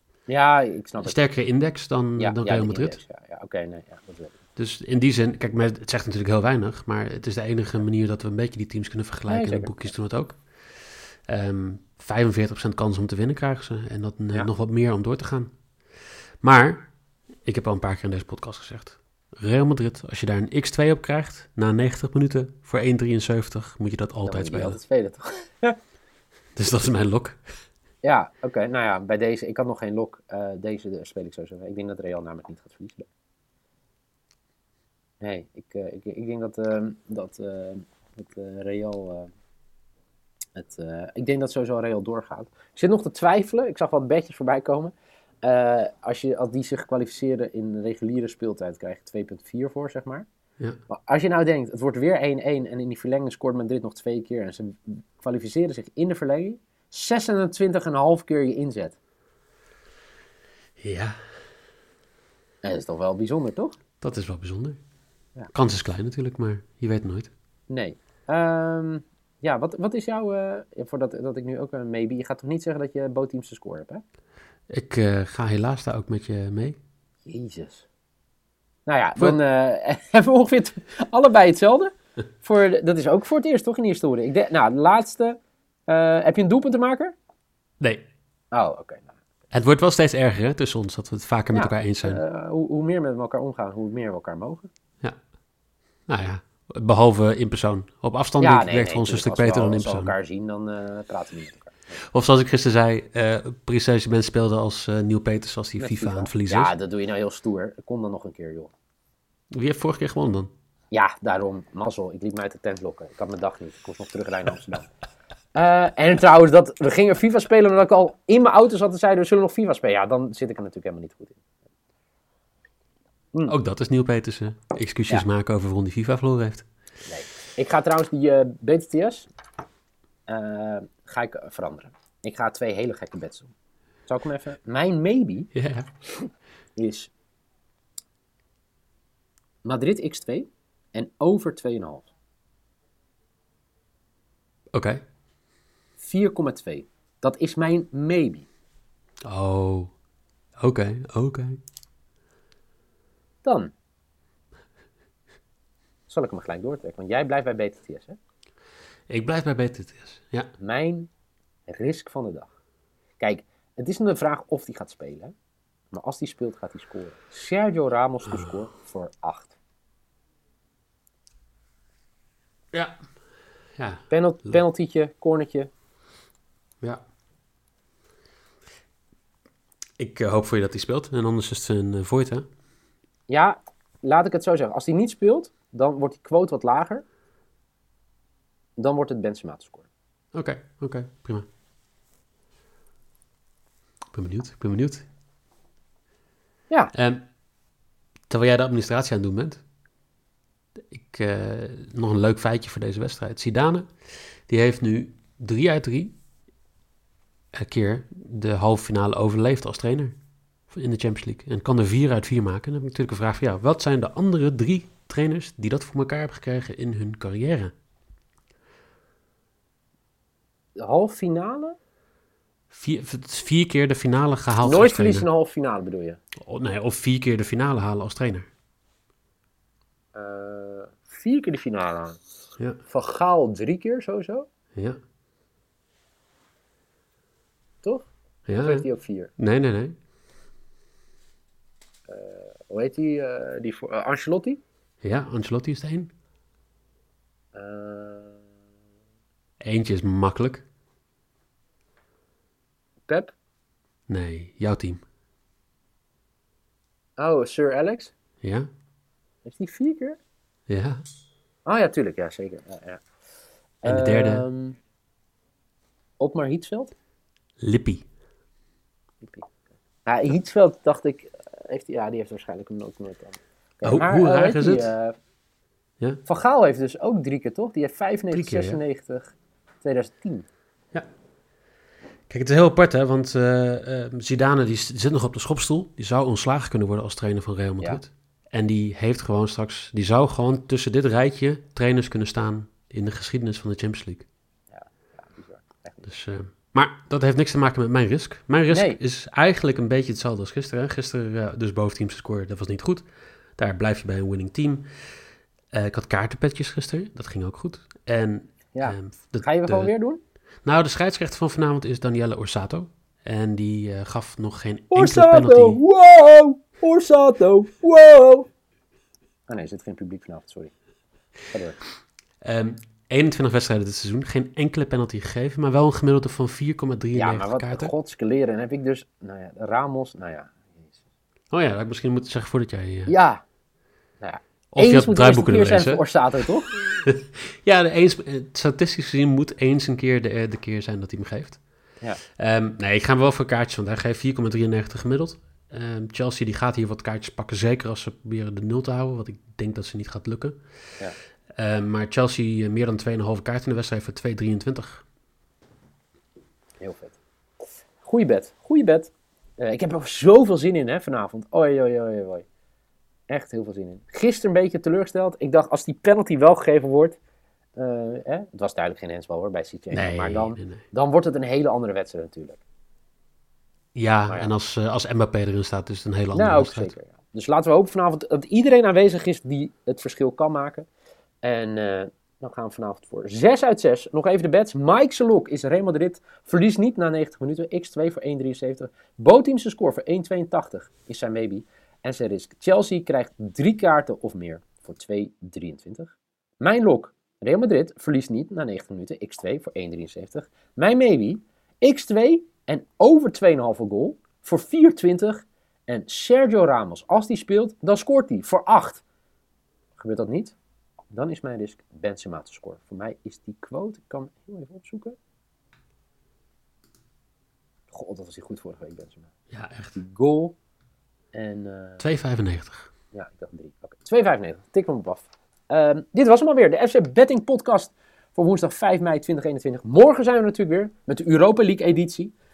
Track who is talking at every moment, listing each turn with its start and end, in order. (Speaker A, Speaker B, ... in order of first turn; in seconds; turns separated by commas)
Speaker A: 0.3-1.2, Speaker B: 1.0-3.0, Speaker A: 2.2-4.4, Speaker B: 4.5-15.5, Speaker A: 9.3-9.8, Speaker B: 16.4-16.9, Speaker B: 17.4-24.8, Speaker A: 24.2-25.8, Speaker B: 26.6-27.4, Speaker A: 28.0-33.1, Speaker A: 35.2-39.3, Speaker A: 40.5-50.3, Speaker A: 50.9-59.0, Speaker B: 60.8-61.1, Speaker A: 62.6-63.8, Speaker B: 64.0-64.8, Speaker B: 65.5-67.3, Speaker A: 67.7-74.0, Speaker B: 74.7-76.8, Speaker A: 77.2-77.9, Speaker A: 78.8-87.1, Speaker A: 88.5-89.2, Speaker B: 89.5-92.2, Speaker A: 91.5-94.7, Speaker B: 96.1-100.1, Speaker A: 98.4-101.9, Speaker B: 102.0-106.7, Speaker A: 105.8-108.7, Speaker B: 109.5-110.5, Speaker A: 110.9-114.9, Speaker A: 115.5-121.4, Speaker B: 123.5-126.7, Speaker A: 127.1-129.3, Speaker A: 130.3-133.5, Speaker A: 134.1-135.5, Speaker B: 135.5-135.9, Speaker A: 136.2-137.1, Speaker A: 139.6-142.1, Speaker B: 144.7-145.0, Speaker A: 146.0-148.5, Speaker B: 149.2-149.9, Speaker B: 150.6-151.6, Speaker A: 153.4-153.7, Speaker A: 156.1-158.2, Speaker B: 159.1-160.5, Speaker A: 160.6-161.1, Speaker A: 161.7-162.5, Speaker A: 163.2-165.3, Speaker A: 165.9-169.5, Speaker B: 172.7-173.0, Speaker B: 173.8-174.6, Speaker A: 174.1-175.7, Speaker B: 180.0-182.4, Speaker A: 183.3-187.0, Speaker A: 188.8-189.9, Speaker B: 190.3-191.4, Speaker B: 194.1-195.1, Speaker B: 196.9-197.3, Speaker B: 198.3-199.6, Speaker B: 200.9-203.9, Speaker B: 204.5-206.1, Speaker B: 207.5-210.1, Speaker B: 210.7-217.7, Speaker A: 220.8-221.8, Speaker B: 222.7-225.3, Speaker A: 224.6-226.2, Speaker B: 226.4-228.5, Speaker A: 230.1-232.2, Speaker A: 232.8-234.5, Speaker B: 234.7-235.0, Speaker A: 237.8-239.3, Speaker B: 238.5-239.9, Speaker A: 242.1-244.6, Speaker B: 245.0-246.1, Speaker A: 247.5-248.4, Speaker B: 249.6-250.6, Speaker A: 253.1-253.3, Speaker B: 254.1-255.0, Speaker A: 257.2-258.1, Speaker B: 258.4-258.7, Speaker A: 259.4-260.2, Speaker B: 260.7-261.0, Speaker A: 261.6-263.0, Speaker A: 263.8-264.8, Speaker B: 263.8-264.4, Speaker A: 266.2-266.9, Speaker B: 267.6-268.0, Speaker A: 269.2-275.1, Speaker B: 273.8-274.9, Speaker A: 276.2-280.4, Speaker B: 278.3-278.8, Speaker B: 282.3-294.2, Speaker A: 294.7-296.1, Speaker B: 296.1-303.0, Speaker A: 298.7-299.0, Speaker B: 303.6-304.9, Speaker B: 305.7-309.9, Speaker A: 308.7-310.2, Speaker B: 310.6-315.8, Speaker A: 314.9-318.5, Speaker A: 319.5-320.7, Speaker A: 321.5-321.8, Speaker B: 322.4-327.9, Speaker A: 327.1-331.0, Speaker B: 331.5-333.1, Speaker A: 333.1-333.4, Speaker A: 334.2-336.7, Speaker B: 334.7-336.0, Speaker B: 336.7-341.6, Speaker B: 342.4-350.6, Speaker B: 351.6-355.0, Speaker A: 356.8-357.2, Speaker A: 358.0-362.4, Speaker A: 363.3-367.2, Speaker A: 367.8-372.6, Speaker B: 369.9-370.8, Speaker B: 373.9-376.9, Speaker A: 376.3-380.9, Speaker A: 381.4-409.0, Speaker A: 409.9-410.5, Speaker A: 411.1-415.1, Speaker A: 417.9-419.3, Speaker B: 419.5-420.0, Speaker A: 419.9-420.6, Speaker A: 421.3-422.1, Speaker B: 422.0-422.9, Speaker A: 423.1-432.3